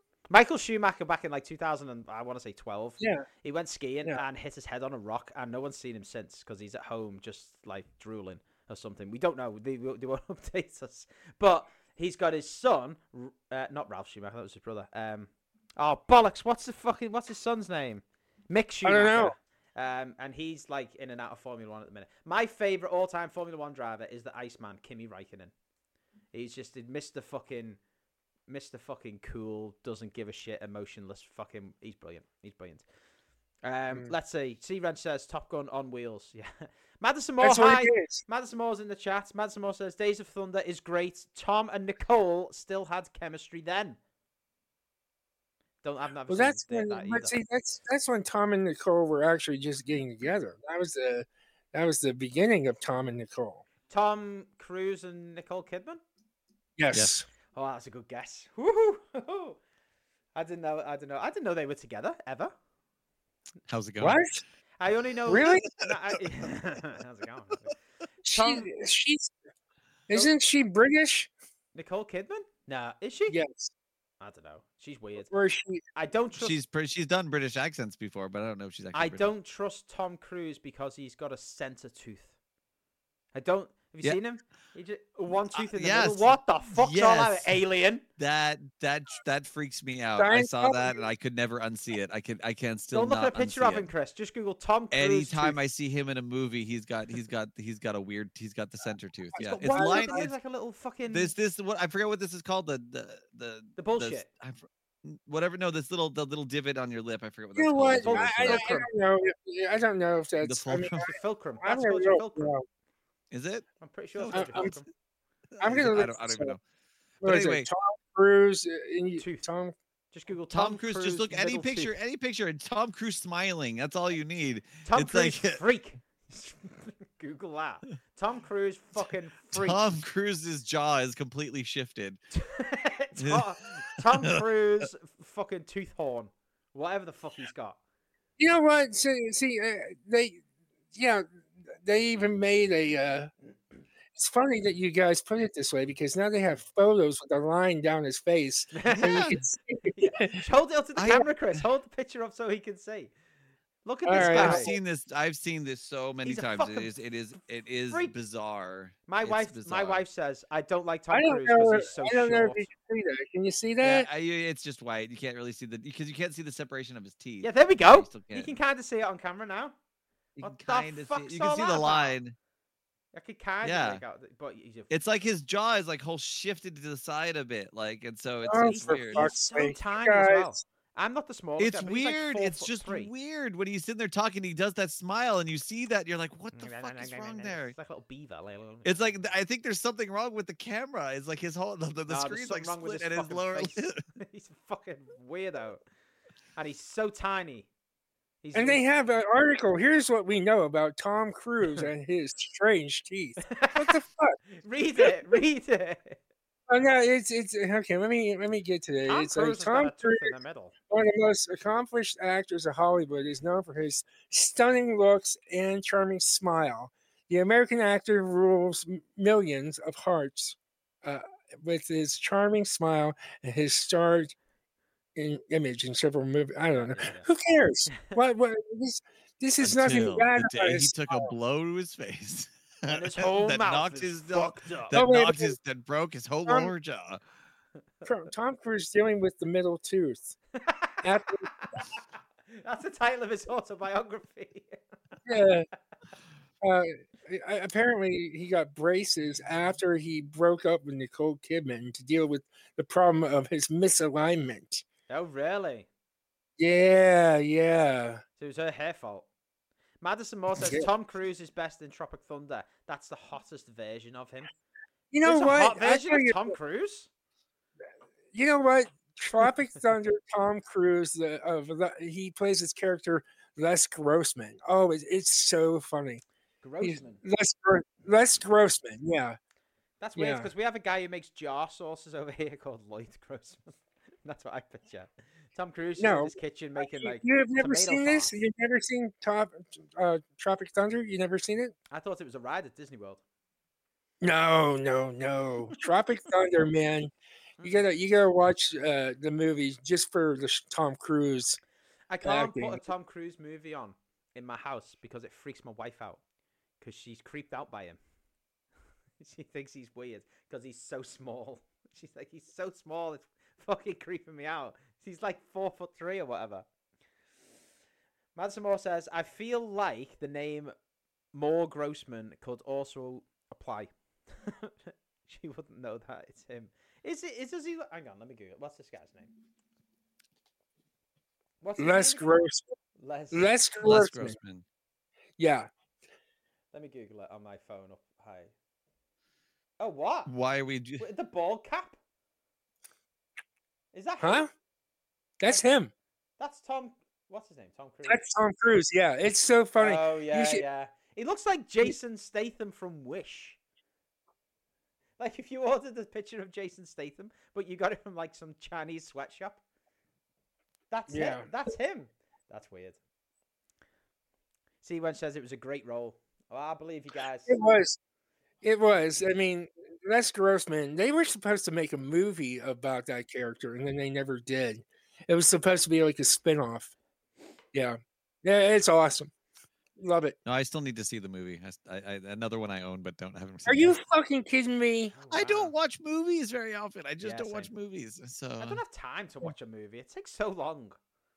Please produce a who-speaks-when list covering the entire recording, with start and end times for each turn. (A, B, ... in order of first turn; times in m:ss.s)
0:00.3-0:25.5 A
0:18.8-0:19.3 B
0:26.3-0:27.8 A
0:28.5-0:32.8 A
0:33.6-0:44.0 A
0:37.4-0:38.2 B
0:45.8-0:47.4 A
0:46.3-0:53.6 B
0:53.9-0:56.0 A
0:56.8-0:57.2 B
0:57.5-0:59.6 A
1:00.3-1:02.5 A
1:03.7-1:04.2 C
1:04.0-1:04.4 B
1:04.8-1:07.7 A
1:05.3-1:05.6 B
1:08.2-1:09.3 B
1:08.3-1:08.6 A
1:10.1-1:11.3 B
1:11.7-1:13.4 A
1:13.3-1:13.7 B
1:14.2-1:15.3 A
1:15.3-1:15.8 B
1:15.9-1:16.6 A
1:16.4-1:19.3 C
1:18.9-1:22.3 A
1:23.3-1:28.0 A
1:25.5-1:27.6 C
1:28.2-1:33.9 C
1:30.2-1:31.0 B
1:32.9-1:35.6 A
1:34.9-1:40.3 C
1:39.4-1:41.3 A
1:39.6-1:40.2 B
1:41.1-1:48.6 C
1:43.8-1:44.3 A
1:47.6-1:52.6 B
1:48.0-1:48.9 A
1:50.4-1:51.1 C
1:51.0-1:52.5 A
1:53.3-1:53.6 C
1:53.8-1:54.9 A
1:54.2-1:54.8 C
1:54.3-1:54.7 B
1:55.6-1:56.6 C
1:55.6-1:56.6 B
1:57.2-1:57.7 C
1:57.2-1:59.7 B
1:59.2-1:59.4 A
2:00.1-2:01.9 A
2:00.5-2:05.6 C
2:04.8-2:09.8 A
2:09.5-2:12.2 C
2:12.3-2:17.8 A
2:13.2-2:13.4 C
2:14.1-2:14.4 C
2:18.4-2:20.4 B
2:20.9-2:21.2 B
2:21.8-2:23.3 B
2:24.1-2:30.4 B
2:28.7-2:29.2 A
2:28.9-2:29.4 C
2:29.9-2:33.1 A
2:31.0-2:31.2 C
2:33.8-2:34.7 A
2:34.0-2:34.7 B
2:34.1-2:40.0 C
2:36.2-2:36.9 A
2:39.1-2:42.7 A
2:41.1-2:44.1 B
2:43.8-2:48.5 C
2:47.4-2:49.7 A
2:50.4-2:52.3 C
2:50.4-2:52.2 A
2:53.1-2:54.9 A
2:53.6-2:54.0 C
2:54.9-2:59.3 C
2:58.4-3:00.6 B
2:58.6-3:03.1 A
3:01.6-3:07.8 C
3:06.5-3:09.2 A
3:08.8-3:14.0 C
3:12.1-3:15.8 A
3:16.6-3:17.7 A
3:18.4-3:18.8 A
3:18.5-3:24.4 B
3:23.5-3:24.0 A
3:24.6-3:26.2 A
3:26.7-3:30.3 B
3:29.1-3:30.7 A
3:30.9-3:44.3 B
3:45.2-3:51.3 B
3:46.7-3:47.3 A
3:49.6-3:57.2 C
3:52.8-3:54.9 A
3:54.9-3:55.6 B
3:56.5-3:56.7 B
3:58.0-4:00.4 B
4:00.6-4:01.0 A
4:01.0-4:01.5 B
4:01.6-4:01.8 A
4:02.5-4:04.8 A
4:05.2-4:05.7 B
4:06.6-4:14.8 B
4:15.1-4:15.9 A
4:16.6-4:18.2 B
4:18.4-4:19.3 A
4:20.0-4:24.5 A
4:20.5-4:20.9 B
4:25.1-4:26.6 B
4:25.2-4:27.1 A
4:28.3-4:36.2 B
4:36.6-4:37.2 A
4:36.8-4:39.4 B
4:40.0-4:48.3 A
4:40.2-4:40.5 B
4:46.0-4:51.7 B
4:51.9-4:53.2 A
4:54.2-4:57.1 B
4:57.6-5:01.6 B
5:02.1-5:06.2 A
5:02.2-5:02.8 B
5:06.8-5:08.0 A
5:09.2-5:16.6 A
5:18.4-5:20.7 A
5:21.3-5:29.3 A
5:31.6-5:32.4 A
5:31.8-5:32.7 B
5:33.0-5:33.5 A
5:33.3-5:34.4 B
5:33.8-5:34.6 C
5:35.4-5:35.7 B
5:36.7-5:38.5 A
5:39.8-5:40.3 A
5:40.3-5:41.0 C
5:41.0-5:42.0 A
5:43.9-5:44.4 A
5:44.2-5:44.5 B
5:45.4-5:45.9 B
5:46.4-5:48.2 A
5:48.0-5:50.6 B
5:49.8-5:53.6 A
5:55.2-5:59.6 A
6:00.9-6:03.0 A
6:01.1-6:01.5 B
6:04.8-6:07.5 A
6:07.5-6:08.0 B
6:08.6-6:16.9 B
6:17.7-6:19.3 B
6:20.0-6:20.4 B
6:20.4-6:24.0 C
6:23.6-6:25.1 B
6:25.1-6:25.7 A
6:25.3-6:28.8 C
6:27.2-6:27.7 A
6:28.6-6:31.0 A